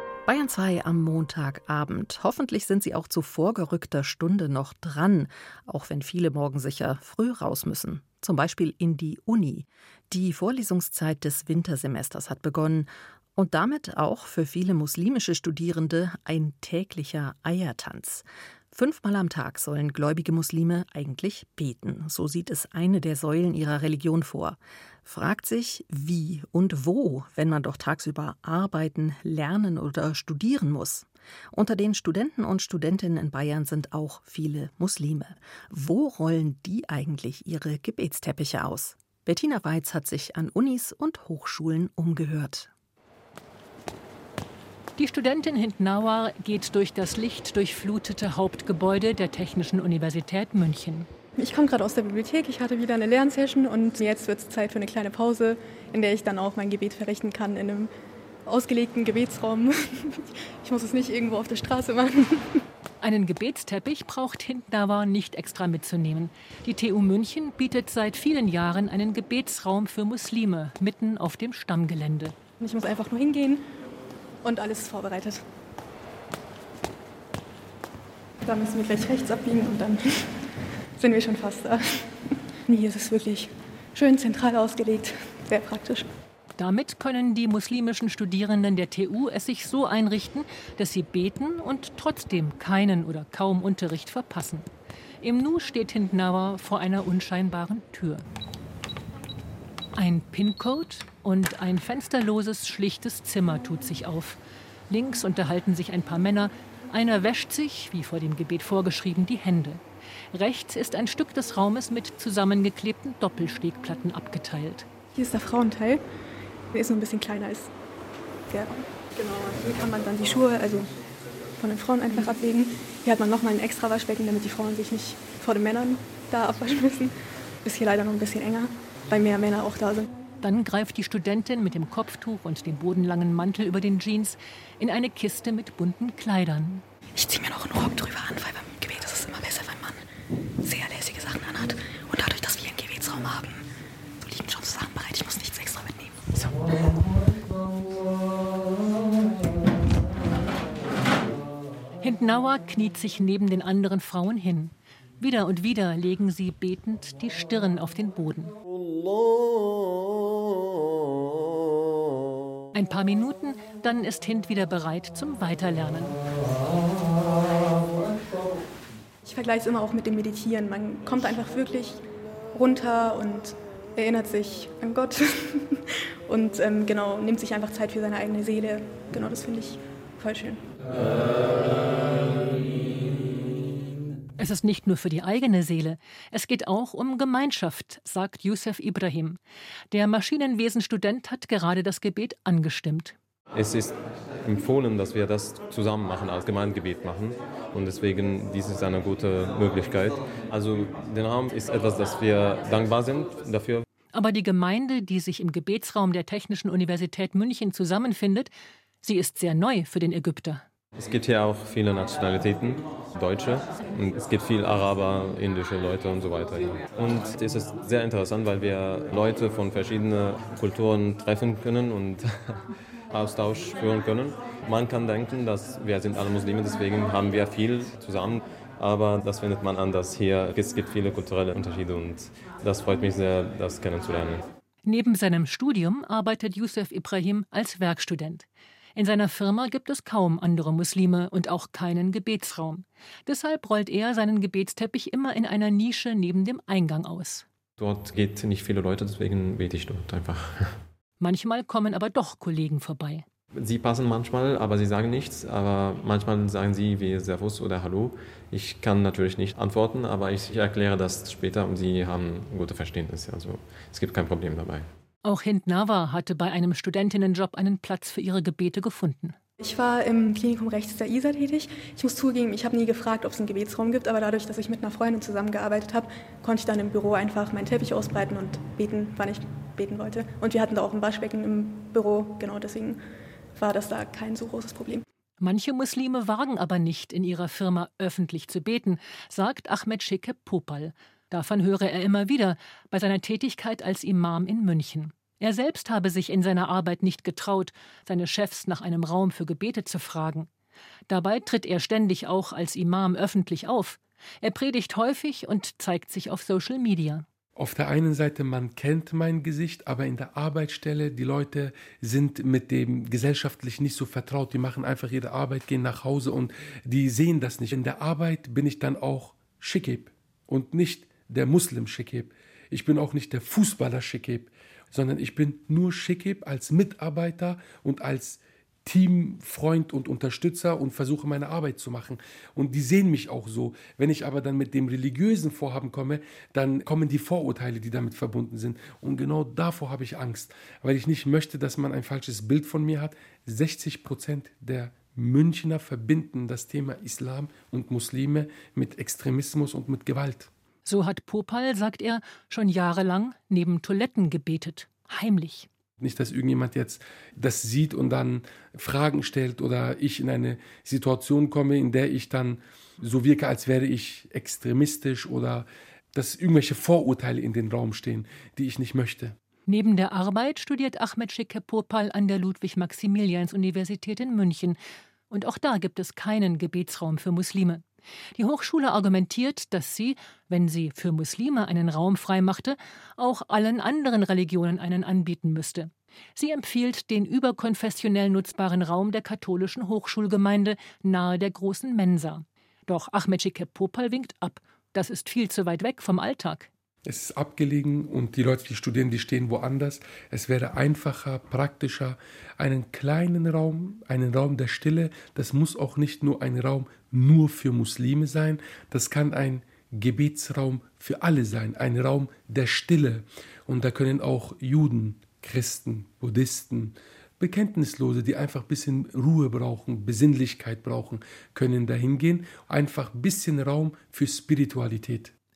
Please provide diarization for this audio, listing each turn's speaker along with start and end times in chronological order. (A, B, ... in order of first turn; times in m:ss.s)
0:00.2-0:42.7 A
0:45.0-0:51.1 B
0:51.4-0:57.9 C
0:58.4-1:02.6 C
1:03.0-1:12.3 B
1:12.6-1:13.6 C
1:14.4-1:15.4 C
1:18.4-1:22.1 C
1:22.6-1:26.1 C
1:26.6-1:34.6 B
1:35.2-1:38.2 B
1:40.0-1:49.8 B
1:50.3-1:54.9 B
1:55.1-1:56.0 C
1:56.7-1:57.7 C
1:58.5-2:00.9 C
2:01.6-2:10.1 C
2:10.4-2:16.8 B
2:17.2-2:20.0 D
2:20.6-2:23.6 D
2:24.2-2:27.0 D
2:32.0-2:38.5 B
2:42.7-2:46.1 B
2:49.2-3:00.7 C
3:04.4-3:09.4 B
3:09.9-3:13.2 B
3:13.5-3:23.8 E
3:24.1-3:28.5 B
3:29.0-3:30.6 B
3:31.0-3:42.6 E
3:43.1-3:54.4 E
3:54.8-4:07.4 B
4:07.8-4:10.8 E
4:11.2-4:13.2 B
4:13.5-4:24.9 E
4:25.2-4:29.4 B
4:29.6-4:43.0 C
4:43.6-4:45.0 C
4:45.4-5:00.5 B
5:01.1-5:07.2 B
5:07.6-5:50.5 F
5:50.8-5:55.7 B
5:56.0-6:09.4 F
6:09.7-6:14.8 B
6:15.3-6:17.8 B
6:18.4-6:36.7 B
6:37.0-7:05.3 F